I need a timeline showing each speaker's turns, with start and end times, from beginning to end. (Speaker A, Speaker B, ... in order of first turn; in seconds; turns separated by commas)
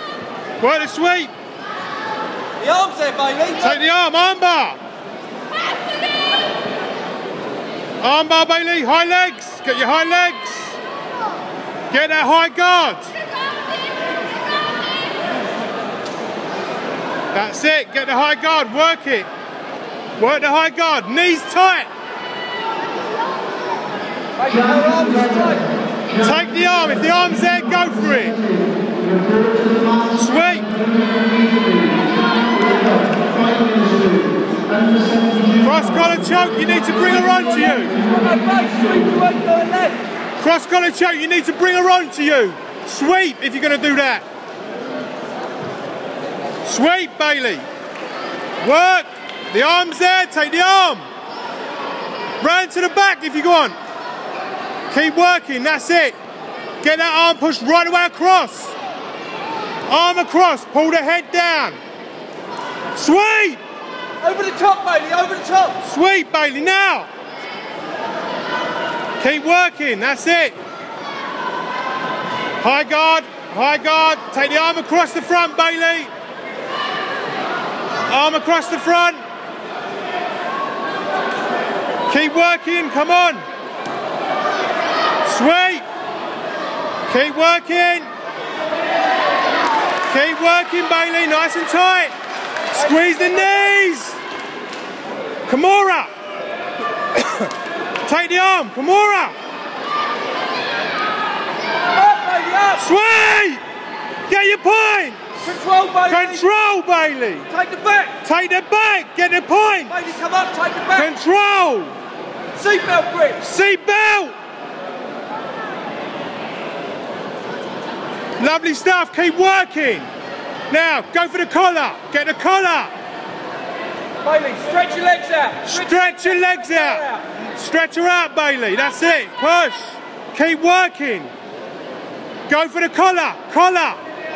Speaker A: 0.6-1.3, Speaker B: 2.6-3.7, Speaker A: 3.6-4.8, Speaker A: 8.0-10.8, Speaker A: 11.9-13.1, Speaker A: 17.3-19.3, Speaker A: 20.2-21.9, Speaker B: 24.4-25.6, Speaker A: 26.1-28.4, Speaker A: 30.1-30.7, Speaker A: 35.6-38.0, Speaker B: 38.0-40.0, Speaker A: 40.4-44.2, Speaker A: 46.6-47.6, Speaker A: 48.6-51.0, Speaker A: 52.4-53.8, Speaker A: 54.9-56.2, Speaker A: 56.8-58.8, Speaker A: 59.9-61.8, Speaker A: 63.0-63.6, Speaker B: 64.2-65.8, Speaker A: 65.8-67.1, Speaker A: 69.2-70.5, Speaker A: 72.6-76.1, Speaker A: 78.1-79.2, Speaker A: 82.1-83.4, Speaker A: 85.2-85.8, Speaker A: 87.1-88.1, Speaker A: 90.1-92.1, Speaker A: 92.7-94.2, Speaker A: 95.5-96.1, Speaker A: 98.0-99.3, Speaker B: 101.9-102.8, Speaker A: 102.7-103.6, Speaker A: 104.3-105.4, Speaker B: 105.5-106.4, Speaker A: 106.1-107.5, Speaker B: 107.5-108.2, Speaker A: 108.2-110.1, Speaker B: 109.9-111.1, Speaker A: 110.9-111.9, Speaker B: 112.5-113.4, Speaker A: 113.4-114.3, Speaker A: 118.4-120.1, Speaker A: 120.7-122.9, Speaker B: 124.2-127.1, Speaker A: 125.6-131.3, Speaker A: 132.5-134.0